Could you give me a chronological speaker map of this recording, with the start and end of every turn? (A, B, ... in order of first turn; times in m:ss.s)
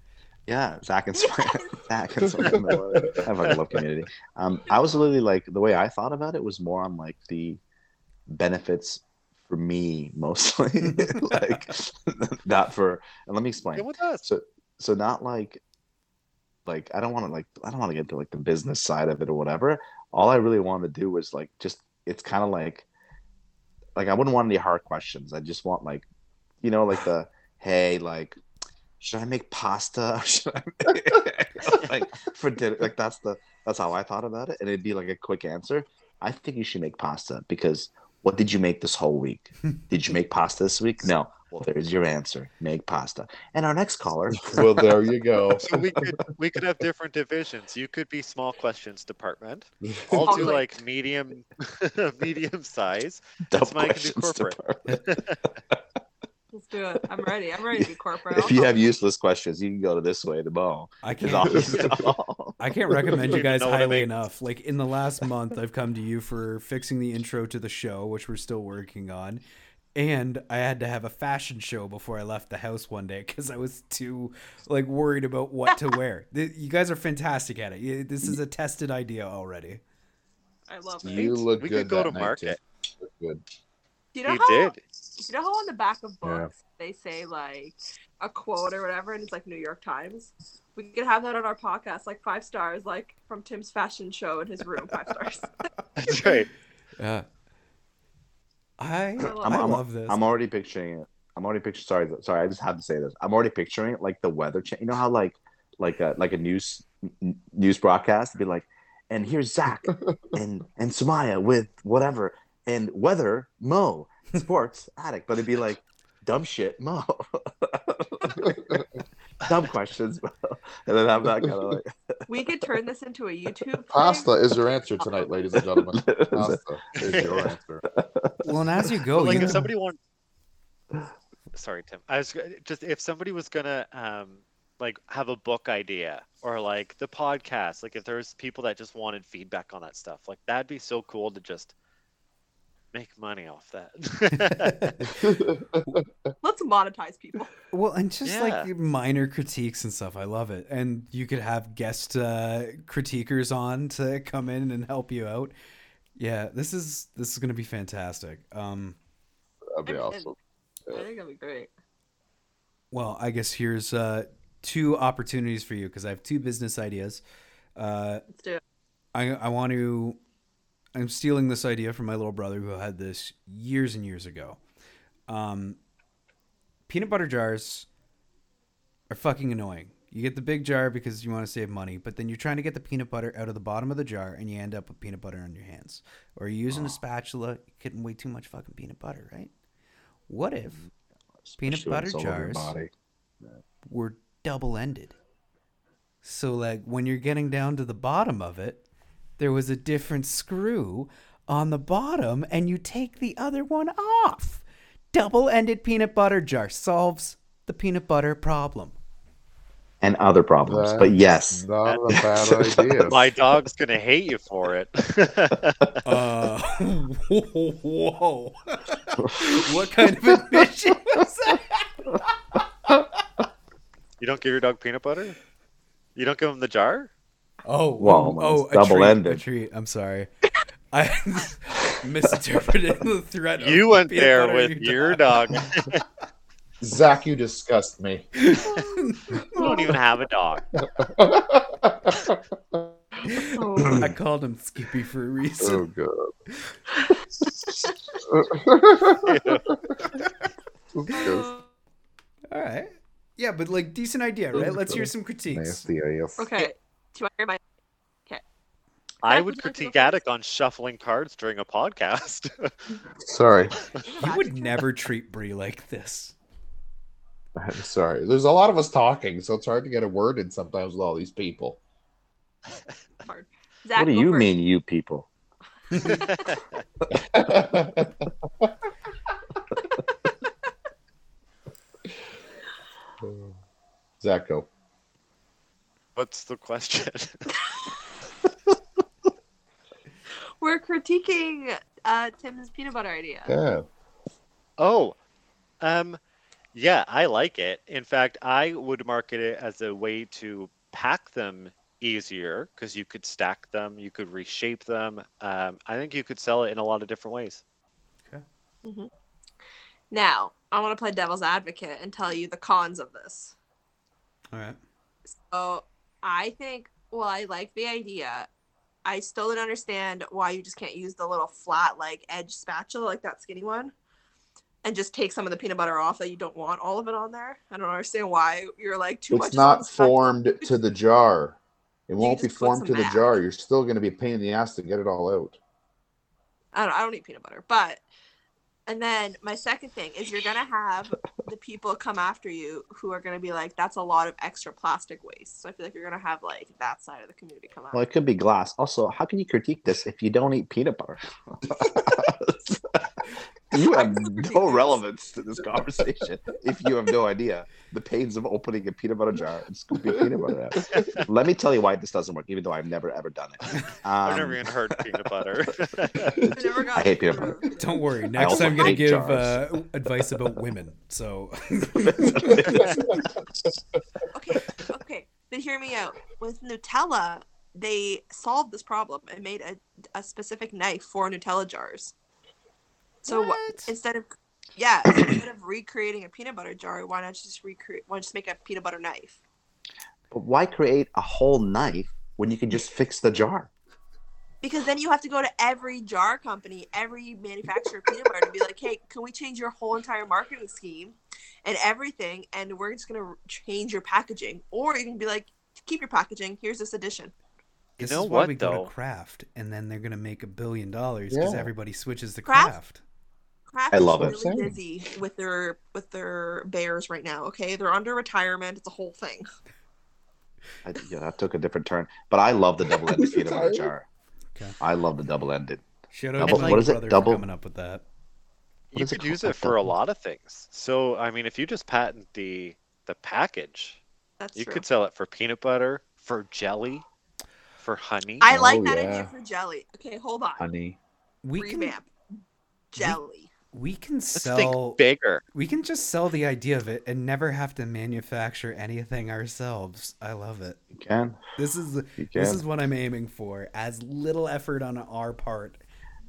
0:00.5-0:07.6 A
0:01.2-0:01.8 B
0:02.2-0:03.2 C
0:08.3-0:15.6 A
0:13.7-0:14.2 D
0:16.6-0:22.9 A
0:23.9-0:26.1 A
0:26.6-0:28.4 A
0:29.0-0:44.9 A
0:44.4-0:45.8 C
0:45.6-0:55.4 D
0:49.8-0:50.4 C
0:50.2-0:50.6 B
0:53.5-0:55.0 A
0:56.5-0:58.8 B
0:57.7-1:03.4 A
1:01.0-1:02.1 E
1:02.6-1:09.4 E
1:03.3-1:04.1 D
1:09.9-1:19.8 E
1:20.7-1:21.5 B
1:21.0-1:23.4 C
1:21.1-1:22.6 D
1:24.1-1:35.7 B
1:24.2-1:24.8 D
1:26.2-1:26.5 C
1:36.0-1:36.5 D
1:37.0-1:37.2 E
1:38.8-1:40.2 E
1:39.2-1:39.8 B
1:39.4-1:58.8 A
1:58.3-1:58.9 C
1:59.4-2:01.9 A
2:02.3-2:04.3 B
2:03.9-2:07.8 C
2:05.0-2:05.3 B
2:05.9-2:06.6 A
2:07.0-2:07.5 D
2:07.9-2:08.4 A
2:08.4-2:09.7 E
2:09.2-2:10.0 D
2:11.5-2:21.7 D
2:22.9-2:24.8 D
2:24.4-2:26.0 E
2:25.1-2:26.3 C
2:26.4-2:27.5 B
2:27.7-2:35.5 E
2:28.2-2:28.7 D
2:36.2-2:39.0 E
2:39.7-2:40.4 C
2:39.9-2:40.3 B
2:40.9-2:41.7 B
2:42.9-2:47.2 E
2:47.8-2:48.3 E
2:48.4-2:48.6 B
2:49.1-2:50.2 E
2:50.9-2:54.6 E
2:55.3-2:55.8 E
2:56.9-2:57.9 E
2:59.1-3:09.5 E
3:06.7-3:07.0 A
3:10.3-3:10.8 E
3:11.4-3:12.9 A
3:11.6-3:12.7 E
3:13.8-3:15.2 E
3:16.2-3:18.8 E
3:19.4-3:28.9 E
3:30.0-3:32.9 A
3:30.7-3:33.2 C
3:33.0-3:35.9 D
3:36.0-3:41.8 E
3:39.2-3:39.7 A
3:44.2-3:45.4 D
3:46.2-3:47.1 D
3:47.6-3:50.3 E
3:48.0-3:49.4 A
3:50.9-3:55.7 E
3:53.6-3:56.0 D
3:56.8-3:58.3 C
3:58.4-3:59.4 E
3:58.6-3:59.7 B
3:59.5-4:00.6 D
4:00.8-4:03.3 C
4:03.3-4:04.1 B
4:03.3-4:05.8 E
4:05.6-4:06.3 C
4:07.7-4:08.2 B
4:08.3-4:10.2 C
4:09.2-4:09.7 D
4:10.9-4:11.5 C
4:11.1-4:11.7 B
4:12.5-4:15.8 E
4:14.5-4:16.7 C
4:16.4-4:17.6 B
4:19.2-4:22.7 D
4:19.2-4:20.2 B
4:23.2-4:23.8 C
4:23.9-4:24.8 B
4:24.2-4:26.3 E
4:27.6-4:31.8 C
4:33.2-4:34.5 B
4:33.9-4:35.3 A
4:35.9-4:36.5 B
4:36.0-4:36.8 D
4:37.1-4:38.7 C
4:43.2-4:43.5 C
4:44.2-4:44.7 C
4:46.2-4:47.4 D
4:50.6-4:53.5 B
4:53.5-4:53.8 C
4:54.8-4:55.2 D
4:55.8-4:56.2 D
4:56.7-5:07.6 D
5:08.8-5:09.1 B
5:10.1-5:13.5 B
5:14.5-5:14.8 E
5:15.3-5:18.5 B
5:19.0-5:23.9 B
5:24.8-5:30.7 B
5:29.3-5:35.6 C
5:32.2-5:33.4 B
5:36.7-5:38.0 B
5:38.9-5:48.0 B
5:47.9-6:04.7 A
5:53.8-5:55.0 B
6:00.0-6:01.0 C
6:00.9-6:01.3 D
6:04.2-6:06.4 D
6:06.4-6:07.6 A
6:06.5-6:09.0 B
6:07.7-6:12.6 E
6:08.4-6:09.6 A
6:12.0-6:13.3 A
6:12.6-6:12.9 D
6:12.9-6:13.3 C
6:14.3-6:22.1 B
6:23.2-6:23.9 E
6:23.3-6:29.4 B
6:30.3-6:33.7 A
6:34.6-6:47.3 B
6:48.0-6:48.9 D
6:48.0-6:53.0 E
6:51.3-6:51.7 C
6:52.4-6:52.7 B
6:53.7-6:59.5 B
6:53.9-6:54.4 A
6:54.2-6:54.7 C
7:00.8-7:04.0 A
7:02.9-7:03.9 C
7:04.8-7:05.8 A
7:06.1-7:08.0 E
7:06.4-7:06.8 D
7:06.4-7:07.4 A
7:08.9-7:14.0 D
7:08.9-7:09.9 A
7:14.4-7:14.8 B
7:14.5-7:17.0 D
7:17.8-7:18.5 D
7:18.4-7:20.7 B
7:18.5-7:19.3 C
7:20.6-7:21.0 C
7:21.4-7:21.9 E
7:21.6-7:22.1 B
7:22.9-7:23.5 B
7:23.7-7:25.0 E
7:24.3-7:25.4 D
7:25.5-7:30.8 E
7:30.9-7:31.4 A
7:31.6-7:35.8 E
7:32.2-7:32.6 A